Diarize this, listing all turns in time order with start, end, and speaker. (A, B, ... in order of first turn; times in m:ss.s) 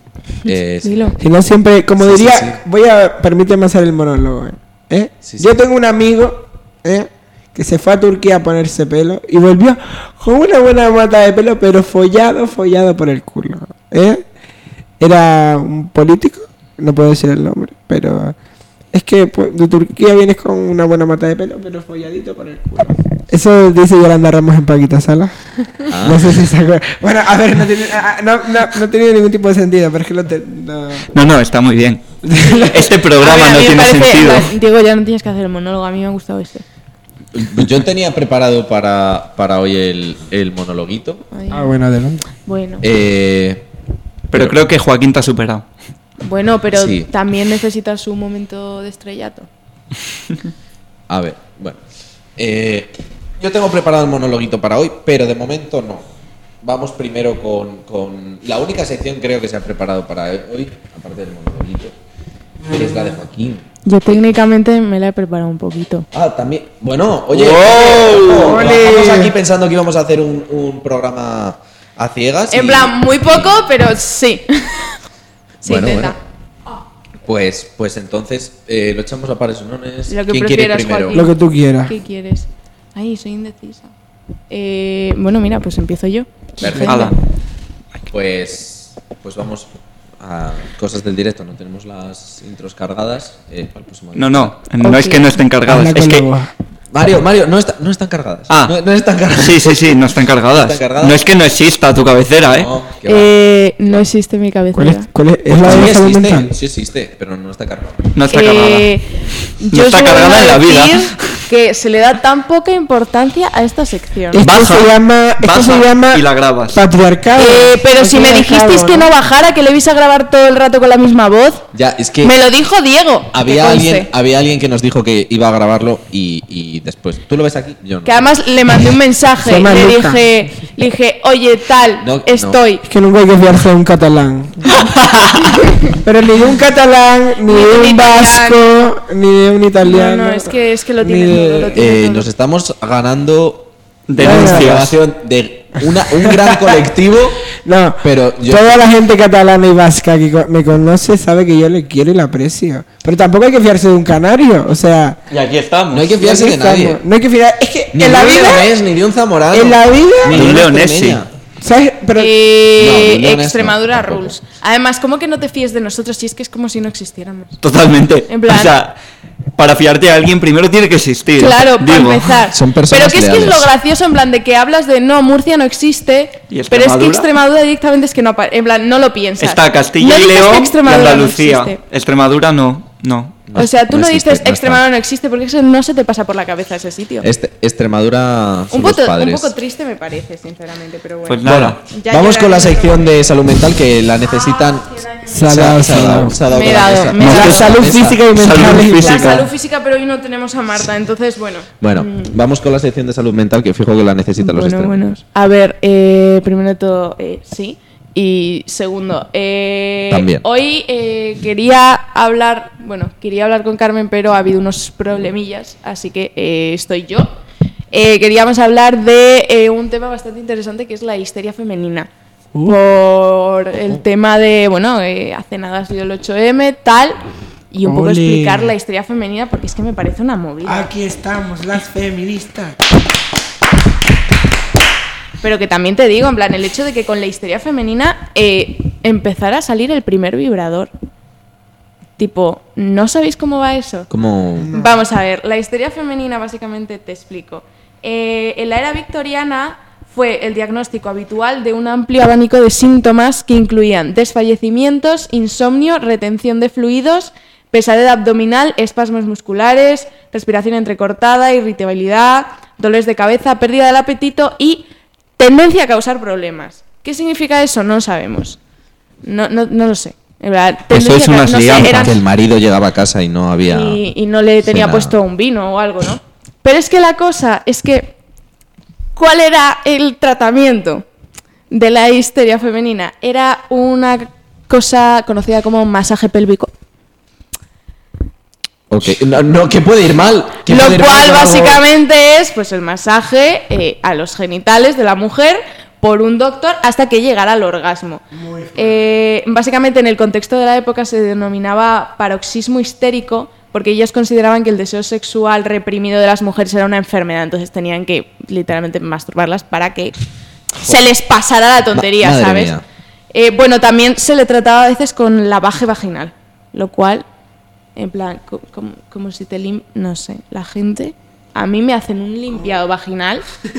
0:00.4-0:01.2 A
0:00.5-0:01.1 B
0:01.2-0:14.2 C
0:02.0-0:02.6 B
0:05.2-0:05.5 B
0:15.0-0:18.4 C
0:18.9-0:31.1 C
0:25.9-0:26.4 B
0:31.1-0:32.0 D
0:32.2-0:33.0 C
0:32.7-0:34.5 D
0:33.2-0:36.6 A
0:37.3-0:41.2 B
0:41.3-0:41.7 A
0:41.5-0:42.3 C
0:42.4-0:42.8 A
0:42.8-0:43.7 B
0:44.3-0:45.6 D
0:44.3-0:44.6 B
0:46.2-0:49.5 A
0:46.7-0:47.1 B
0:51.1-0:51.8 B
0:52.4-0:56.1 B
0:56.6-1:02.0 B
1:02.7-1:03.7 B
1:03.8-1:06.1 A
1:06.1-1:13.7 B
1:07.3-1:08.7 D
1:08.4-1:09.3 C
1:12.5-1:15.0 A
1:15.6-1:16.2 B
1:15.6-1:16.2 A
1:17.2-1:21.2 B
1:20.1-1:21.3 A
1:21.1-1:22.0 C
1:21.9-1:23.9 A
1:24.5-1:27.2 A
1:26.6-1:27.1 B
1:26.7-1:27.2 D
1:28.1-1:34.6 B
1:34.2-1:36.3 D
1:34.8-1:35.3 A
1:35.6-1:36.5 C
1:36.9-1:40.0 B
1:38.5-1:38.8 D
1:39.4-1:42.7 D
1:40.5-1:41.2 B
1:42.5-1:43.3 B
1:43.1-1:45.1 A
1:44.7-1:46.5 C
1:45.5-1:48.0 B
1:48.2-1:48.9 D
1:48.3-1:54.4 A
1:49.7-1:51.3 D
1:54.3-1:59.1 C
1:54.4-1:56.8 D
1:57.4-2:01.7 A
2:01.7-2:02.4 B
2:02.2-2:04.1 A
2:03.3-2:08.3 B
2:08.0-2:12.8 A
2:09.4-2:10.3 C
2:12.0-2:12.6 B
2:12.8-2:14.7 C
2:15.9-2:21.8 C
2:17.5-2:18.9 A
2:19.8-2:22.3 A
2:21.7-2:27.5 B
2:24.1-2:25.0 D
2:24.2-2:24.9 C
2:26.1-2:26.8 C
2:27.6-2:35.2 C
2:28.0-2:28.8 B
2:35.3-2:36.2 D
2:35.9-2:37.0 B
2:36.1-2:38.8 C
2:37.9-2:41.3 B
2:39.5-2:40.6 C
2:40.3-2:41.2 D
2:41.6-2:42.3 C
2:42.2-2:47.6 A
2:42.8-2:44.4 B
2:47.6-2:49.0 D
2:48.3-2:48.7 A
2:49.6-2:52.4 D
2:51.4-3:01.8 A
2:52.5-2:53.7 B
2:56.5-2:57.3 D
2:59.4-3:03.5 D
3:03.5-3:04.8 B
3:03.6-3:07.3 A
3:07.2-3:09.5 B
3:08.7-3:13.3 A
3:11.3-3:11.8 D
3:11.4-3:18.8 B
3:14.2-3:15.4 A
3:15.3-3:16.4 C
3:16.5-3:17.7 A
3:17.2-3:19.5 D
3:17.2-3:19.5 C
3:19.0-3:22.4 A
3:21.8-3:25.2 B
3:24.4-3:37.3 A
3:30.1-3:30.4 B
3:37.9-3:42.1 A
3:42.6-3:50.9 A
3:47.8-3:48.8 C
3:50.6-3:52.8 C
3:55.4-4:00.9 A
4:02.2-4:04.1 A
4:04.1-4:04.8 B
4:04.6-4:05.0 C
4:04.7-4:24.9 A
4:25.4-4:28.6 A
4:29.2-4:32.2 A
4:30.9-4:32.2 D
4:31.8-4:34.0 B
4:33.7-4:38.2 A
4:34.6-4:35.2 B
4:39.2-4:41.0 A
4:41.7-4:46.7 A
4:48.9-4:51.8 B
4:50.7-4:58.2 A
4:58.3-4:59.1 C
4:58.8-5:10.1 A
5:10.8-5:12.7 A
5:11.9-5:12.8 B
5:13.3-5:17.2 A
5:18.0-5:23.4 A